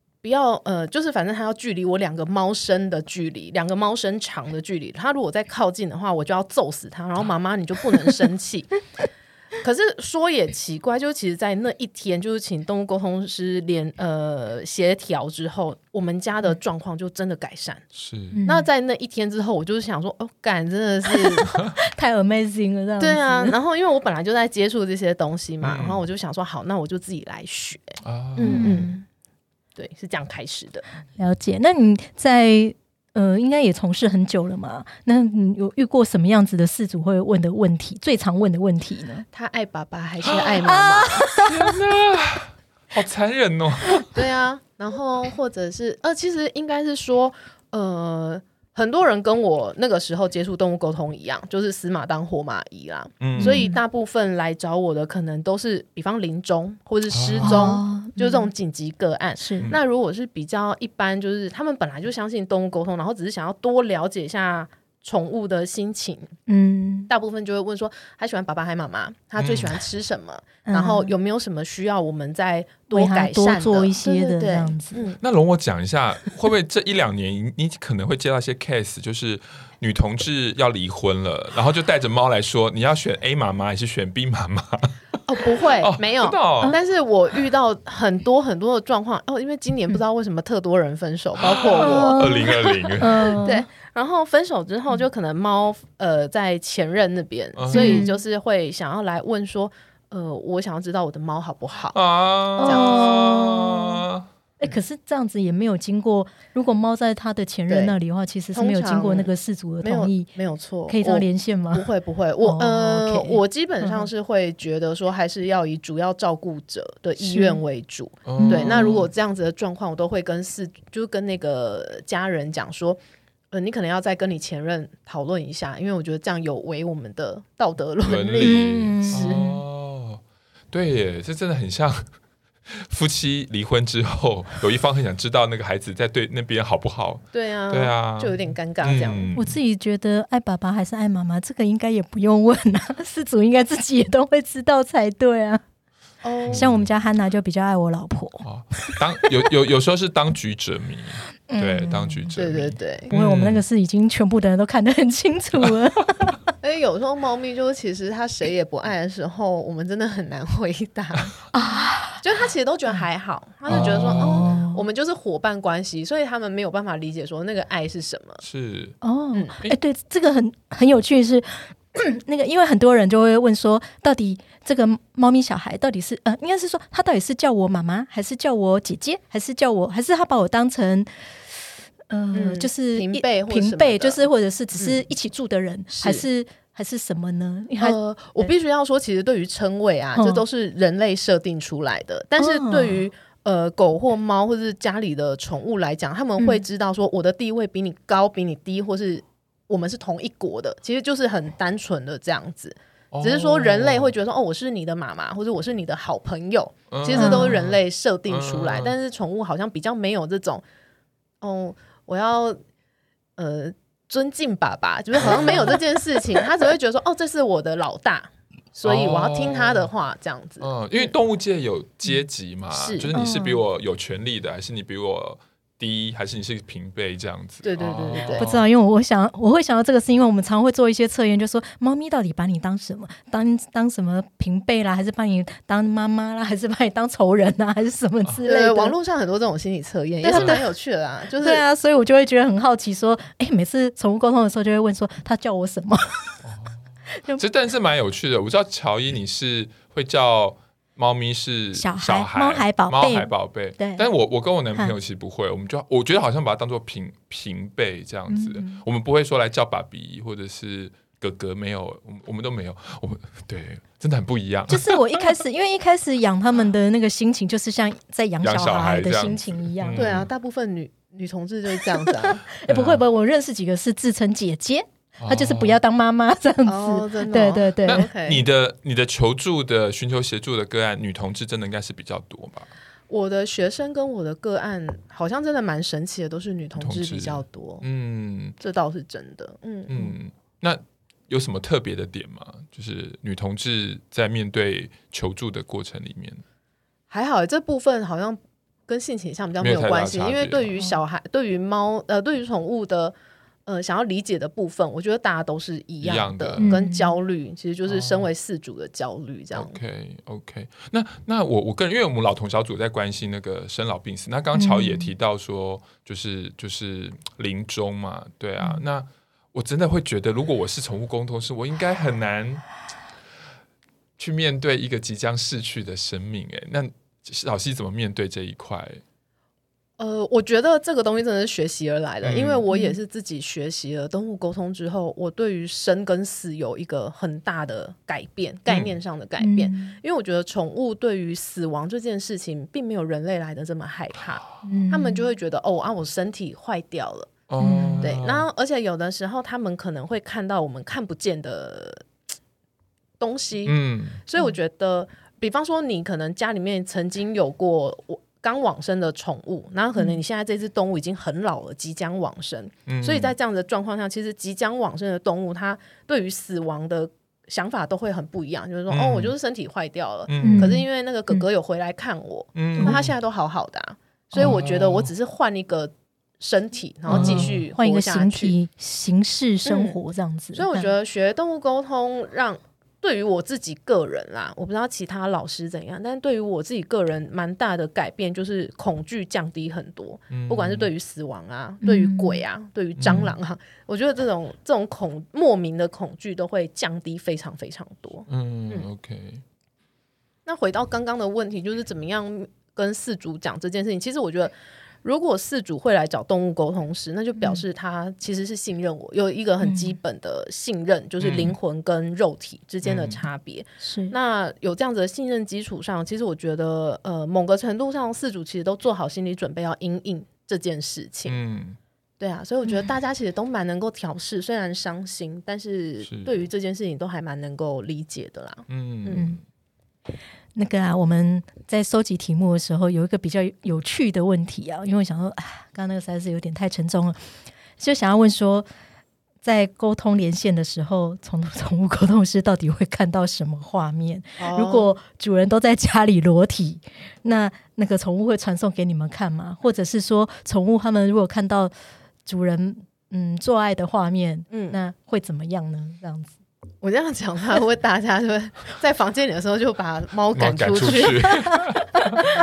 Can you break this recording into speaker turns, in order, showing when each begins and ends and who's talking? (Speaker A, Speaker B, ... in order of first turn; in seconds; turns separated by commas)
Speaker A: 0.2-8.8, Speaker A: 9.6-17.9, Speaker B: 17.9-18.4, Speaker C: 18.3-18.7, Speaker A: 18.4-21.5, Speaker C: 21.2-23.5, Speaker A: 23.0-29.0, Speaker B: 25.6-26.0, Speaker B: 28.0-28.9, Speaker C: 28.4-28.9, Speaker A: 29.8-30.8, Speaker C: 31.2-39.2, Speaker A: 39.3-41.3, Speaker B: 40.2-40.5, Speaker C: 40.7-41.5, Speaker B: 41.4-44.2, Speaker A: 44.1-66.3, Speaker B: 53.2-53.6, Speaker C: 53.4-53.8, Speaker B: 57.1-57.7, Speaker C: 57.4-58.5, Speaker C: 59.4-59.7, Speaker C: 66.5-67.1, Speaker A: 67.1-75.2, Speaker B: 69.4-69.8, Speaker C: 70.6-71.1, Speaker C: 72.9-75.0, Speaker B: 75.2-85.0, Speaker A: 85.2-102.0, Speaker B: 85.8-86.7, Speaker B: 91.4-93.4, Speaker C: 91.8-93.6, Speaker B: 97.5-98.1, Speaker C: 97.7-98.1, Speaker B: 101.9-104.2, Speaker C: 102.6-104.0, Speaker A: 102.6-103.2, Speaker C: 104.6-110.3, Speaker A: 107.7-108.0, Speaker A: 108.5-123.0, Speaker C: 110.9-111.8, Speaker C: 112.4-114.1, Speaker C: 117.2-117.6, Speaker B: 118.2-119.1, Speaker C: 118.4-118.9, Speaker A: 123.5-129.4, Speaker B: 128.0-132.1, Speaker C: 128.4-129.6, Speaker B: 132.7-139.6, Speaker A: 137.3-139.3, Speaker C: 139.3-145.6, Speaker A: 146.2-146.7, Speaker B: 146.5-146.9, Speaker C: 146.5-149.0, Speaker B: 148.4-153.6, Speaker C: 151.5-152.4, Speaker A: 152.3-153.1, Speaker C: 153.1-156.5, Speaker A: 156.6-161.3, Speaker C: 161.5-162.2, Speaker A: 162.2-168.4, Speaker B: 163.7-164.6, Speaker C: 163.7-164.8, Speaker B: 168.4-169.0, Speaker C: 169.0-188.5, Speaker A: 182.3-185.0, Speaker A: 185.9-186.2, Speaker A: 187.8-210.6, Speaker C: 190.1-190.4, Speaker C: 192.4-193.0, Speaker B: 203.1-204.1, Speaker B: 206.9-208.9, Speaker C: 207.1-207.5, Speaker A: 211.4-212.6, Speaker A: 213.4-221.1, Speaker B: 218.8-219.9, Speaker B: 220.6-228.7, Speaker A: 222.7-223.1, Speaker C: 223.1-223.6, Speaker A: 227.6-228.4, Speaker C: 228.2-238.9, Speaker A: 238.4-241.6, Speaker C: 240.2-240.7, Speaker B: 240.3-240.6, Speaker C: 241.4-246.4, Speaker B: 246.4-246.8, Speaker C: 247.1-247.4, Speaker B: 247.3-264.9, Speaker C: 251.7-254.1, Speaker C: 258.3-258.8, Speaker C: 264.7-270.0, Speaker B: 268.4-270.3, Speaker A: 269.9-272.4, Speaker C: 272.1-278.1, Speaker B: 272.6-273.0, Speaker B: 275.2-275.8, Speaker A: 276.6-278.4, Speaker B: 277.8-282.7, Speaker A: 283.1-287.8, Speaker B: 286.8-288.6, Speaker A: 288.6-290.1, Speaker B: 289.9-296.4, Speaker A: 297.1-303.1, Speaker B: 299.6-300.7, Speaker A: 303.6-309.7, Speaker B: 306.0-306.7, Speaker C: 306.6-307.1, Speaker B: 307.9-308.3, Speaker B: 309.5-322.6, Speaker C: 314.5-315.1, Speaker B: 324.2-329.0, Speaker A: 330.0-347.4, Speaker B: 332.2-332.6, Speaker C: 332.7-333.0, Speaker B: 338.7-339.0, Speaker C: 339.4-339.9, Speaker C: 344.6-345.2, Speaker B: 347.5-348.4, Speaker C: 347.6-348.1, Speaker A: 348.0-352.1, Speaker A: 353.2-378.5, Speaker B: 353.6-354.2, Speaker B: 362.9-363.3, Speaker B: 368.9-369.3, Speaker B: 370.3-370.8, Speaker C: 370.4-371.4, Speaker B: 372.6-373.1, Speaker B: 374.4-375.1, Speaker C: 377.1-380.9, Speaker B: 377.1-377.6, Speaker A: 379.6-380.0, Speaker A: 380.5-398.9, Speaker B: 390.3-390.9, Speaker C: 391.8-392.4, Speaker B: 393.0-393.3, Speaker B: 398.3-399.4, Speaker A: 400.4-421.4, Speaker C: 409.6-409.9, Speaker B: 411.2-411.6, Speaker B: 412.8-413.2, Speaker C: 413.8-414.1, Speaker B: 421.2-421.8, Speaker A: 422.2-429.3, Speaker B: 426.0-426.3, Speaker B: 428.7-429.4, Speaker C: 429.1-429.4, Speaker C: 430.5-437.2, Speaker C: 437.8-438.7, Speaker C: 439.4-451.7, Speaker A: 444.4-444.9, Speaker C: 452.2-456.3, Speaker A: 454.5-454.8, Speaker A: 456.8-461.7, Speaker B: 460.3-462.2, Speaker C: 461.3-462.0